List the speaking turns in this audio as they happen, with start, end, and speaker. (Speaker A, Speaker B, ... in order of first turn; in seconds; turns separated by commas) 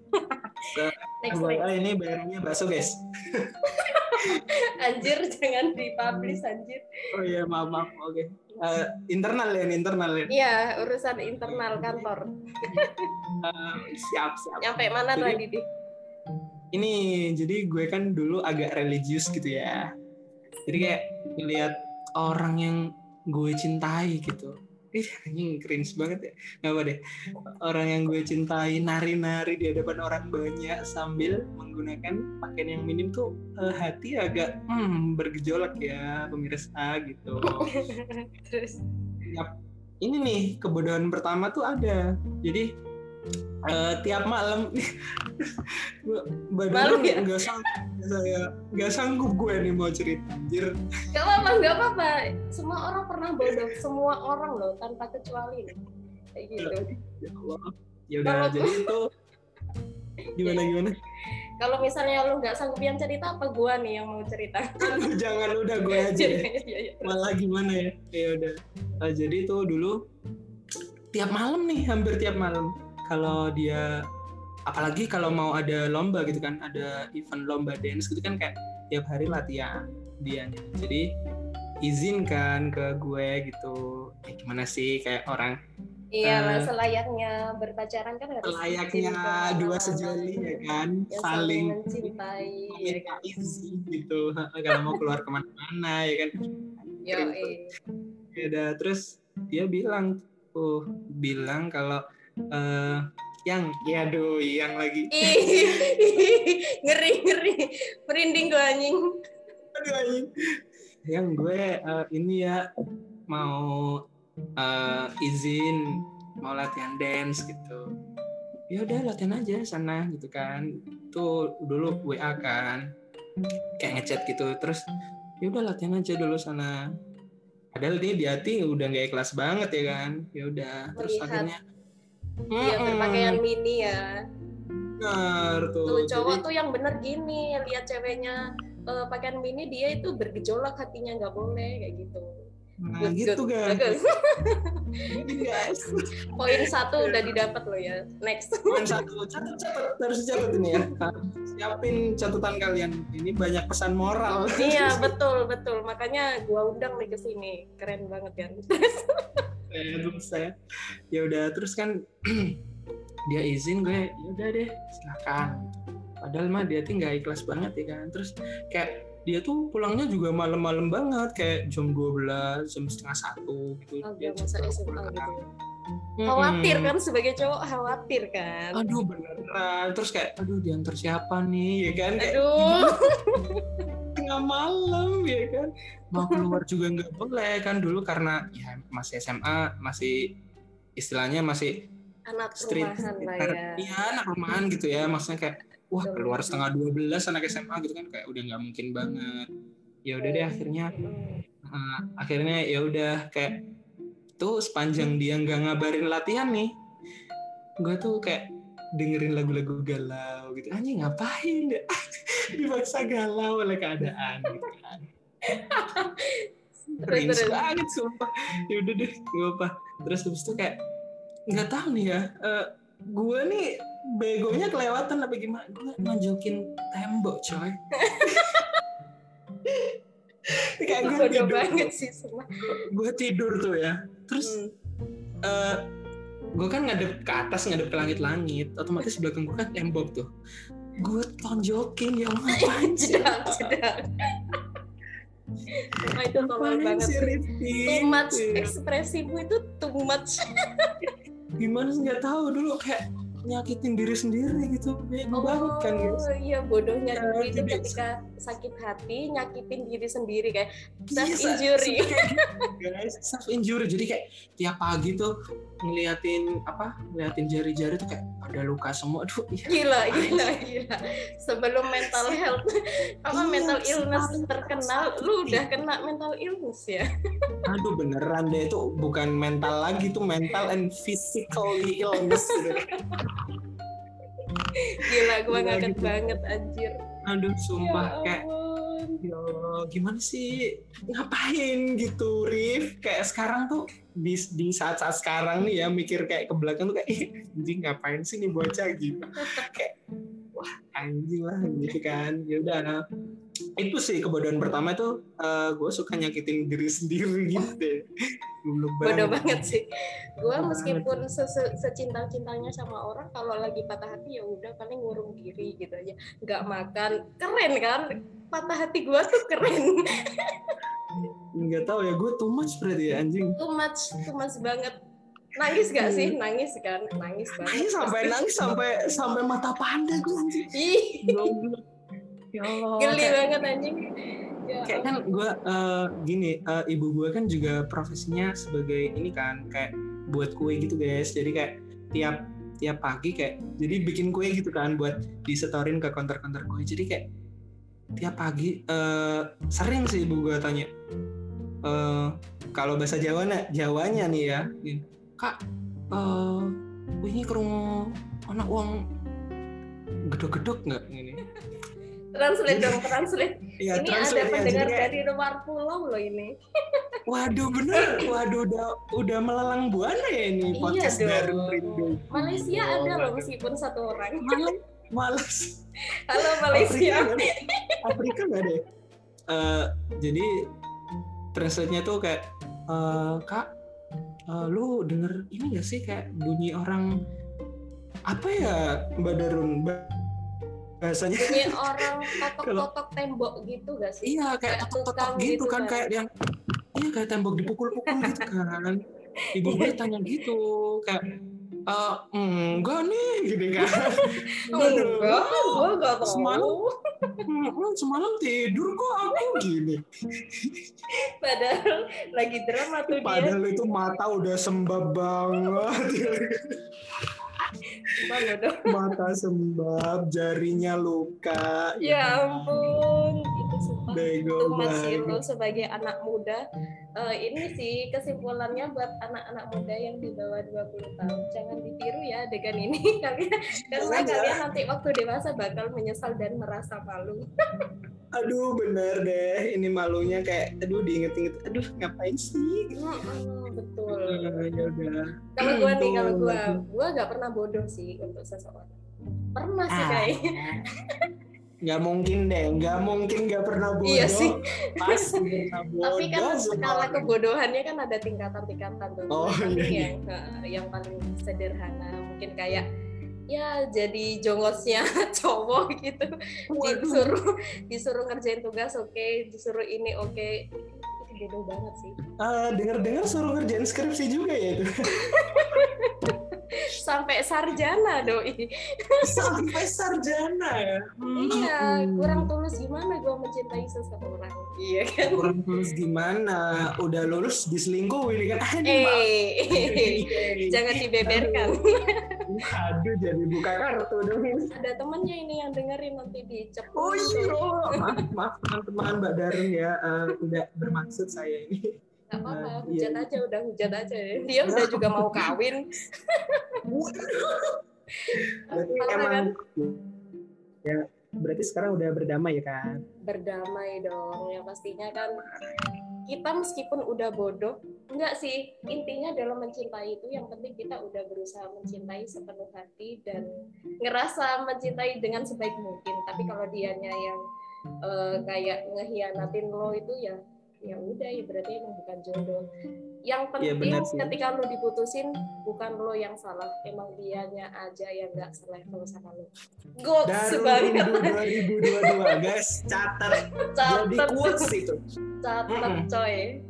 Speaker A: 0.1-0.7, Speaker B: 0.7-3.6, Speaker A: 1.2-1.7, Speaker A: 3.6-6.8, Speaker B: 7.1-10.3, Speaker A: 10.3-13.1, Speaker B: 11.4-12.1, Speaker B: 13.4-15.4, Speaker A: 14.6-15.6, Speaker B: 16.7-19.8, Speaker B: 20.7-22.8, Speaker B: 23.3-27.0, Speaker B: 27.6-37.7, Speaker A: 37.5-38.8, Speaker B: 39.2-42.7, Speaker B: 43.7-44.8, Speaker B: 45.6-50.7, Speaker A: 46.7-47.3, Speaker A: 51.1-55.7, Speaker A: 56.4-56.9, Speaker B: 56.6-59.1, Speaker A: 58.2-58.9, Speaker B: 60.4-60.9, Speaker A: 60.4-60.7, Speaker A: 61.6-65.0, Speaker B: 64.8-66.5, Speaker A: 65.9-67.3, Speaker B: 67.0-69.9, Speaker B: 71.1-73.9, Speaker B: 74.7-81.1, Speaker B: 81.8-85.5, Speaker A: 86.1-93.1, Speaker B: 86.2-86.7, Speaker B: 88.4-92.1, Speaker B: 92.7-96.3, Speaker A: 94.7-95.0, Speaker B: 96.9-97.5, Speaker A: 97.0-97.7, Speaker B: 98.3-102.0, Speaker B: 102.5-105.9, Speaker A: 105.1-109.0, Speaker B: 109.7-110.3, Speaker B: 111.1-112.6, Speaker B: 113.3-113.7, Speaker B: 114.6-115.8, Speaker B: 116.4-117.8, Speaker B: 118.7-122.8, Speaker B: 123.8-124.8, Speaker B: 125.4-126.7, Speaker B: 127.7-131.6, Speaker A: 131.0-131.5, Speaker B: 132.5-133.4, Speaker A: 132.6-134.1, Speaker B: 134.7-136.4, Speaker A: 135.9-138.4, Speaker A: 138.9-142.3, Speaker B: 142.8-143.8, Speaker A: 143.0-144.7, Speaker B: 145.1-147.3, Speaker A: 146.3-149.0, Speaker B: 148.7-155.1, Speaker A: 150.4-150.8, Speaker A: 154.5-159.2, Speaker B: 159.7-160.5, Speaker B: 161.1-162.6, Speaker B: 163.3-175.3, Speaker A: 174.0-175.4, Speaker B: 176.2-176.9, Speaker A: 176.3-178.8, Speaker B: 178.7-182.9, Speaker A: 182.2-183.6, Speaker B: 184.2-190.2, Speaker A: 186.2-186.4, Speaker B: 191.0-191.7, Speaker A: 192.3-193.8, Speaker B: 192.6-199.5, Speaker A: 196.1-196.6, Speaker B: 200.1-200.9, Speaker A: 200.2-201.4, Speaker B: 201.6-203.6, Speaker B: 204.4-206.7, Speaker B: 207.8-208.4, Speaker B: 209.0-211.9, Speaker B: 212.6-215.1, Speaker A: 215.5-217.6, Speaker B: 217.1-220.8, Speaker B: 221.5-228.6, Speaker A: 228.0-228.8, Speaker B: 230.8-231.9, Speaker A: 230.8-232.5, Speaker B: 232.8-234.6, Speaker A: 234.4-234.7, Speaker B: 235.4-235.8, Speaker B: 236.6-240.3, Speaker B: 241.0-243.8, Speaker A: 242.5-244.6, Speaker A: 245.7-251.0, Speaker B: 246.3-248.7, Speaker B: 251.6-256.2, Speaker A: 255.3-262.7, Speaker B: 257.1-258.0, Speaker B: 261.1-265.3, Speaker B: 265.8-270.5, Speaker A: 269.7-272.7, Speaker B: 272.0-272.4, Speaker A: 273.2-277.0, Speaker B: 273.3-275.6, Speaker B: 277.6-282.8, Speaker A: 282.2-283.2, Speaker A: 284.7-286.9, Speaker B: 285.1-286.4, Speaker B: 287.3-288.4, Speaker A: 287.8-289.2, Speaker B: 289.2-290.6, Speaker B: 291.1-299.9, Speaker B: 300.5-302.9, Speaker B: 303.8-308.0, Speaker B: 308.6-309.6, Speaker A: 309.0-309.9, Speaker A: 310.4-320.7, Speaker B: 310.5-311.1, Speaker B: 321.6-323.6, Speaker A: 323.6-324.9, Speaker A: 325.6-328.4, Speaker B: 326.0-326.4, Speaker B: 327.6-330.7, Speaker A: 330.7-331.5, Speaker B: 331.2-331.8, Speaker B: 332.5-333.4, Speaker A: 333.0-334.1, Speaker A: 334.6-335.1, Speaker B: 334.9-347.3, Speaker B: 348.2-350.9, Speaker B: 351.8-355.6, Speaker B: 356.1-359.0, Speaker B: 360.3-361.4, Speaker A: 362.3-366.5, Speaker B: 362.7-363.1, Speaker B: 363.8-365.1, Speaker B: 367.2-373.5, Speaker A: 367.9-368.3, Speaker A: 370.8-374.6, Speaker B: 374.4-375.8, Speaker A: 376.3-378.0, Speaker B: 376.3-377.5, Speaker B: 378.0-378.8, Speaker B: 379.5-380.5, Speaker B: 381.5-383.6, Speaker B: 384.5-387.1, Speaker B: 388.3-390.1, Speaker B: 391.0-392.1, Speaker A: 391.4-396.1, Speaker B: 392.6-392.9, Speaker B: 394.2-396.3, Speaker B: 396.9-399.0, Speaker A: 398.0-398.4, Speaker B: 399.5-401.2, Speaker A: 399.6-399.9, Speaker B: 401.9-406.7, Speaker A: 403.8-407.4, Speaker B: 407.5-410.9, Speaker A: 411.4-413.8, Speaker B: 413.1-416.5, Speaker A: 418.1-418.8, Speaker B: 418.2-422.7, Speaker A: 422.0-426.6, Speaker B: 424.1-425.4, Speaker A: 427.2-437.4, Speaker B: 433.9-434.6, Speaker B: 438.3-442.9, Speaker A: 442.9-444.5, Speaker B: 444.3-446.8, Speaker A: 445.6-449.0, Speaker A: 449.6-450.4, Speaker B: 449.9-450.8, Speaker B: 451.8-457.3, Speaker A: 454.0-455.4, Speaker A: 456.0-462.8, Speaker B: 459.3-460.1, Speaker A: 463.5-466.3, Speaker B: 466.7-467.4, Speaker A: 466.8-470.5, Speaker A: 471.1-472.1, Speaker B: 472.4-474.9, Speaker A: 475.2-479.7, Speaker B: 475.5-475.8, Speaker B: 479.2-482.5, Speaker A: 481.4-485.5, Speaker B: 485.3-491.7, Speaker A: 488.9-491.8, Speaker B: 492.5-494.7, Speaker A: 494.7-497.6, Speaker B: 496.9-501.9, Speaker A: 502.3-505.8, Speaker B: 502.5-503.2, Speaker B: 504.7-505.5, Speaker A: 506.3-506.6, Speaker B: 506.9-507.8, Speaker A: 508.3-509.5, Speaker B: 508.3-510.0, Speaker B: 510.8-513.0, Speaker A: 513.2-515.4, Speaker B: 515.1-515.7, Speaker A: 516.3-523.5, Speaker A: 524.0-527.4, Speaker A: 528.0-532.6, Speaker A: 533.3-539.5, Speaker B: 533.6-534.4, Speaker A: 540.0-542.5, Speaker B: 540.3-545.0, Speaker A: 543.7-544.7, Speaker A: 545.4-546.5, Speaker B: 545.7-546.0